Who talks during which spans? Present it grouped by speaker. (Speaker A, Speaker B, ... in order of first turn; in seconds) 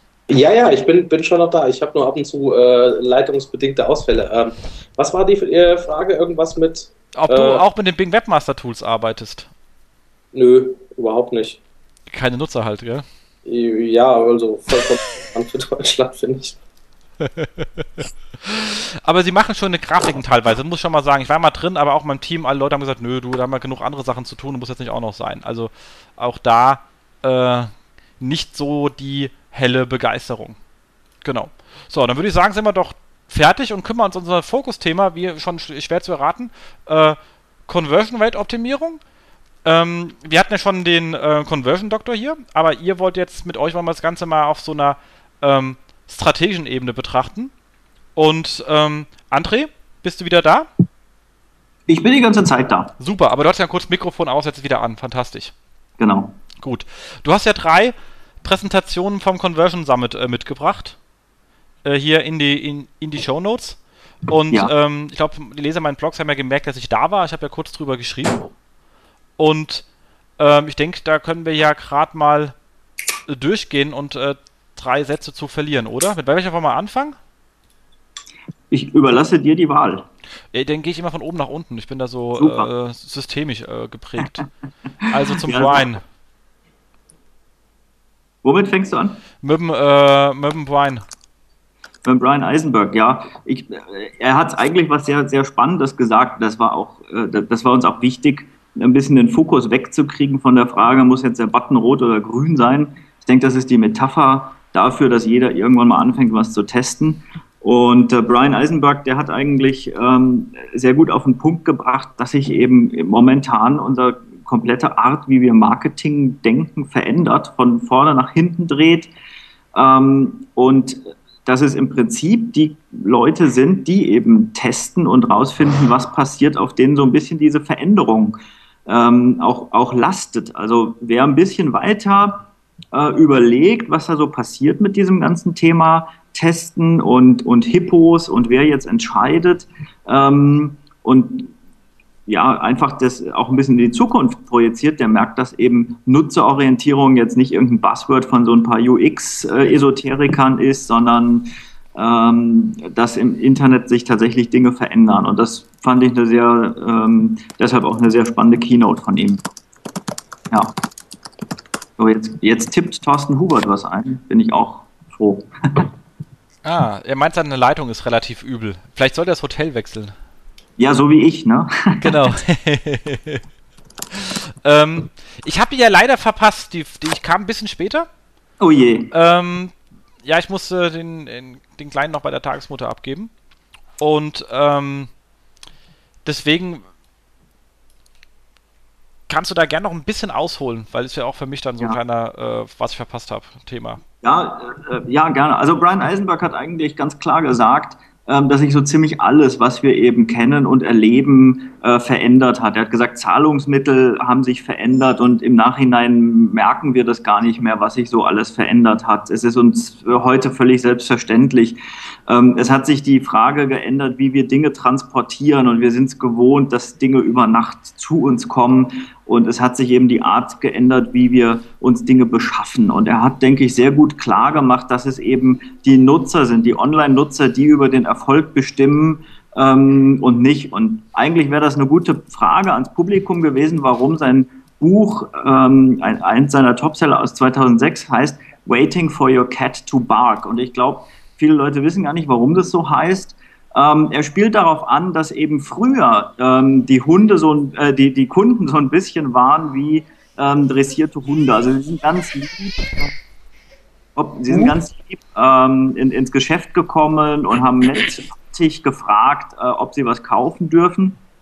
Speaker A: 0.3-7.6, 10.3-11.6, 13.4-16.6
Speaker B: 7.2-9.5, 12.1-13.1, 17.2-17.9, 18.4-30.6, 31.2-39.0, 39.6-47.5, 48.2-50.7, 53.0-55.5, 56.6-61.0, 61.9-68.5, 69.4-69.8, 70.4-72.5, 73.3-77.2, 80.5-84.5, 85.1-86.0, 89.4-91.0, 166.6-170.1, 172.0-173.4, 174.1-178.1, 179.1-179.7, 180.2-183.3, 184.0-185.1, 186.2-186.8, 189.3-194.0
Speaker C: 51.9-52.9, 56.0-56.4, 78.7-80.0, 82.4-82.7, 85.4-85.9, 88.4-89.2, 92.0-119.1, 119.7-141.5, 142.3-159.4, 162.0-165.9, 170.8-172.3, 178.6-179.1, 194.2-253.1, 254.2-261.2